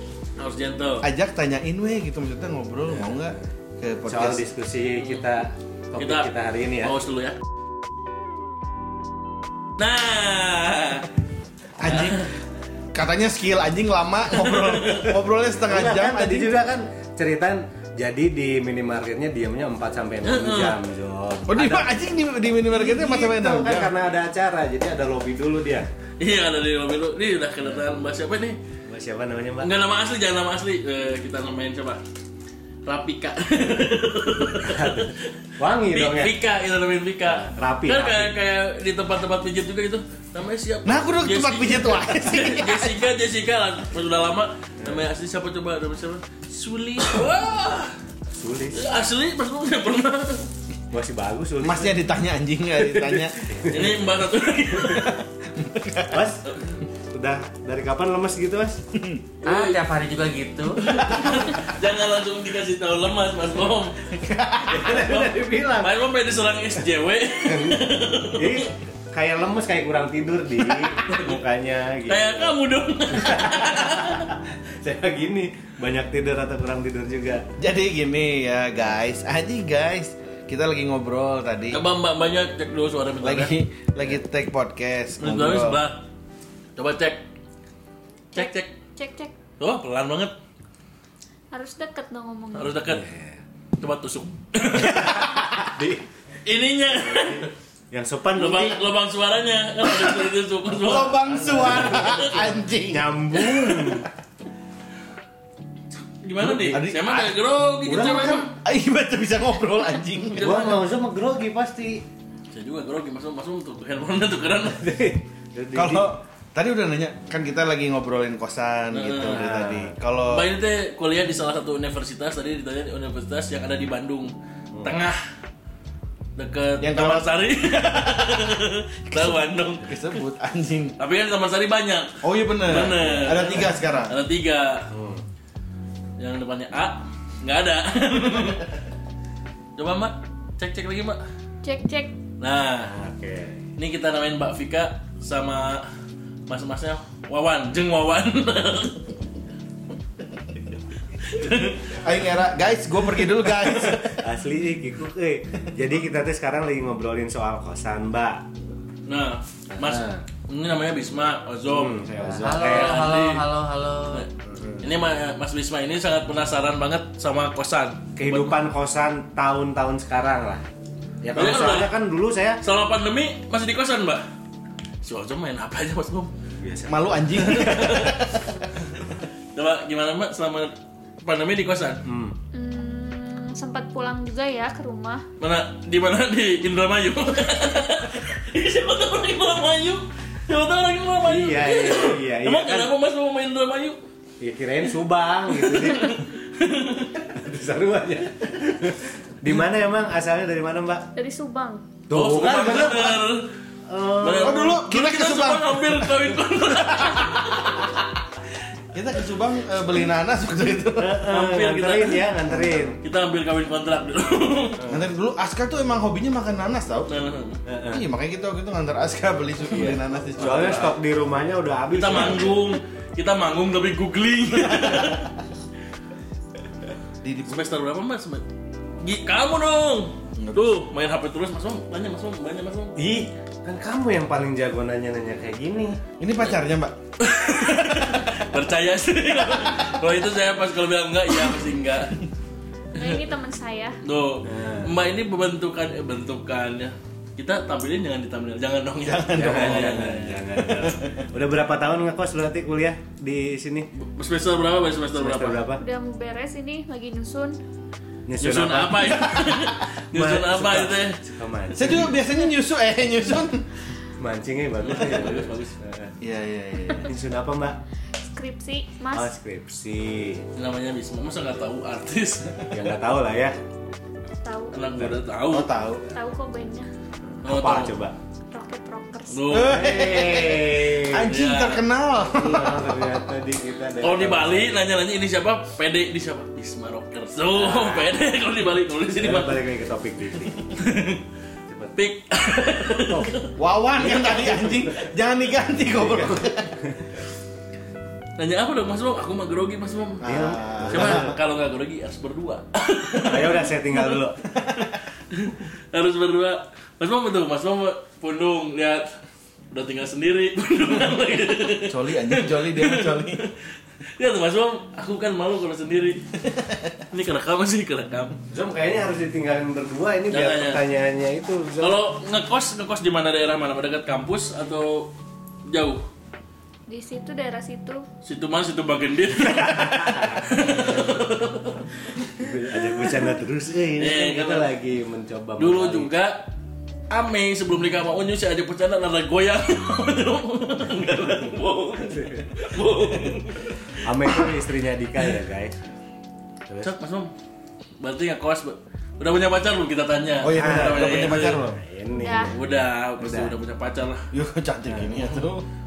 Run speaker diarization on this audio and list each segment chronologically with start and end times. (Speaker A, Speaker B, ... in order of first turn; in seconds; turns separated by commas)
Speaker A: 0.4-1.1, Speaker B: 1.0-4.4, Speaker C: 2.9-3.5, Speaker C: 4.1-7.0, Speaker A: 5.0-5.3, Speaker A: 6.0-7.4, Speaker A: 9.8-11.1, Speaker B: 11.8-12.3, Speaker A: 11.9-12.3, Speaker B: 12.9-16.5, Speaker A: 14.4-15.2, Speaker C: 15.7-22.0, Speaker A: 20.2-20.8, Speaker B: 21.5-23.9, Speaker C: 22.7-25.9, Speaker A: 26.2-28.6, Speaker C: 28.9-29.7, Speaker A: 29.6-32.0, Speaker A: 32.9-35.3, Speaker C: 34.6-36.3, Speaker A: 35.8-47.9, Speaker C: 37.3-38.3, Speaker B: 40.9-43.0, Speaker C: 48.4-48.9, Speaker A: 48.7-50.5, Speaker C: 50.9-52.0, Speaker B: 51.6-53.5, Speaker C: 52.9-53.8, Speaker A: 53.6-55.3, Speaker B: 55.6-56.3, Speaker C: 56.1-56.4, Speaker C: 57.1-58.8, Speaker D: 59.4-60.8, Speaker A: 59.4-59.8, Speaker A: 60.8-64.1, Speaker B: 64.1-64.7, Speaker C: 64.7-65.9, Speaker A: 64.8-68.7, Speaker C: 67.4-72.5, Speaker A: 71.0-71.4, Speaker A: 72.1-74.3, Speaker C: 73.1-77.5, Speaker B: 77.6-81.8, Speaker A: 81.7-83.5, Speaker B: 83.2-85.8, Speaker A: 85.2-86.0, Speaker A: 86.8-87.2, Speaker A: 88.3-88.7, Speaker E: 88.3-89.3, Speaker A: 89.6-90.3, Speaker E: 91.5-92.8, Speaker A: 92.5-93.0, Speaker C: 92.9-93.4, Speaker A: 93.8-95.3, Speaker C: 94.6-96.0, Speaker A: 96.5-97.5, Speaker C: 97.0-98.8, Speaker A: 98.3-102.3, Speaker B: 100.8-103.2, Speaker C: 101.3-104.1, Speaker A: 103.5-103.9, Speaker A: 106.2-108.5, Speaker B: 106.4-110.7, Speaker C: 107.9-108.3, Speaker A: 110.3-110.9, Speaker C: 110.4-112.0, Speaker A: 112.5-114.9, Speaker C: 114.7-116.1, Speaker B: 115.7-120.5, Speaker A: 118.9-119.5, Speaker C: 119.2-119.9, Speaker A: 120.3-125.2, Speaker A: 126.4-130.0, Speaker B: 126.8-127.3, Speaker B: 129.1-131.0, Speaker A: 131.0-134.9, Speaker B: 132.2-134.2, Speaker C: 133.0-133.5, Speaker C: 134.9-135.2, Speaker A: 136.2-138.7, Speaker A: 139.8-141.2, Speaker E: 141.6-142.1, Speaker A: 142.4-142.9, Speaker C: 142.8-143.6, Speaker A: 143.8-145.9, Speaker A: 146.5-149.1, Speaker A: 151.2-152.2, Speaker B: 151.9-154.2, Speaker A: 153.6-153.9, Speaker C: 154.1-158.4, Speaker A: 159.1-162.0, Speaker C: 159.7-160.2, Speaker C: 161.7-163.1, Speaker D: 162.4-164.3, Speaker A: 162.6-163.4, Speaker C: 164.4-164.9, Speaker A: 164.8-168.6, Speaker C: 168.2-170.6, Speaker C: 171.2-172.6, Speaker A: 171.3-171.9, Speaker A: 172.6-174.2, Speaker A: 175.0-176.3, Speaker C: 176.6-178.1, Speaker B: 176.9-178.2, Speaker A: 177.4-178.2, Speaker A: 179.6-180.7, Speaker A: 181.2-182.0, Speaker C: 182.1-182.4, Speaker E: 182.5-185.2, Speaker A: 185.4-194.0, Speaker C: 191.2-192.9, Speaker C: 194.4-196.2, Speaker A: 195.5-197.2, Speaker C: 197.3-201.1, Speaker E: 201.2-201.9, Speaker C: 202.1-203.3, Speaker A: 202.1-203.5, Speaker C: 203.9-204.7, Speaker A: 204.2-207.8, Speaker B: 204.3-206.3, Speaker B: 207.0-207.9, Speaker B: 208.9-211.3, Speaker C: 211.0-213.0, Speaker A: 211.3-212.3, Speaker B: 212.5-212.9, Speaker A: 213.0-214.8, Speaker B: 214.9-217.1, Speaker A: 217.1-217.6, Speaker C: 217.7-218.1, Speaker B: 217.9-220.9, Speaker A: 219.7-221.0, Speaker C: 219.7-222.8, Speaker A: 221.9-225.3, Speaker B: 227.2-227.7, Speaker A: 227.5-228.4, Speaker A: 229.0-233.0, Speaker B: 230.4-230.8, Speaker C: 233.0-236.0, Speaker B: 236.2-237.0, Speaker A: 237.2-242.2, Speaker E: 242.9-244.0, Speaker A: 244.0-250.6, Speaker C: 244.4-244.9, Speaker B: 249.1-251.1, Speaker C: 249.3-253.9, Speaker A: 254.0-255.7, Speaker C: 255.2-255.8, Speaker E: 255.8-257.6, Speaker C: 258.3-259.3, Speaker A: 258.4-261.2, Speaker B: 259.3-259.6, Speaker C: 260.1-262.2, Speaker B: 261.7-263.7, Speaker C: 264.2-266.1, Speaker A: 264.8-265.8, Speaker B: 266.2-267.1, Speaker C: 267.0-267.8, Speaker E: 268.2-269.3, Speaker C: 269.1-270.4, Speaker A: 270.6-272.7, Speaker C: 272.7-273.6, Speaker E: 274.4-274.9, Speaker A: 274.7-275.7, Speaker B: 275.5-276.1, Speaker E: 276.1-276.9, Speaker C: 277.3-278.1, Speaker A: 277.4-277.9, Speaker E: 278.5-279.5, Speaker A: 279.3-279.8, Speaker B: 279.5-283.0, Speaker C: 279.5-281.3, Speaker A: 281.3-281.8, Speaker C: 282.2-284.7, Speaker A: 284.0-289.6, Speaker C: 287.6-288.2, Speaker C: 289.2-290.7, Speaker A: 290.7-291.2, Speaker C: 291.7-291.9, Speaker A: 292.0-293.5, Speaker C: 292.9-293.3, Speaker B: 293.6-296.8, Speaker C: 294.1-295.0, Speaker C: 296.0-296.3, Speaker A: 298.4-300.3, Speaker B: 300.2-301.4, Speaker C: 300.2-301.4, Speaker A: 300.9-309.1, Speaker C: 303.3-304.4, Speaker A: 309.7-313.5, Speaker B: 311.8-313.4, Speaker A: 314.2-316.3, Speaker A: 317.1-318.4, Speaker C: 318.5-322.0, Speaker A: 320.3-320.8, Speaker A: 321.8-325.1, Speaker A: 325.7-326.0, Speaker E: 326.9-328.0, Speaker A: 328.2-331.8, Speaker C: 329.4-331.2, Speaker C: 332.4-336.1, Speaker A: 334.0-334.7, Speaker A: 335.6-336.5, Speaker A: 337.1-343.8, Speaker C: 342.1-342.5, Speaker C: 344.0-345.8, Speaker A: 346.8-347.3, Speaker A: 348.0-351.6, Speaker B: 350.4-351.8, Speaker C: 350.6-352.6, Speaker E: 352.1-352.6, Speaker A: 352.5-354.3, Speaker C: 353.2-353.5, Speaker B: 354.3-355.6, Speaker C: 354.9-355.3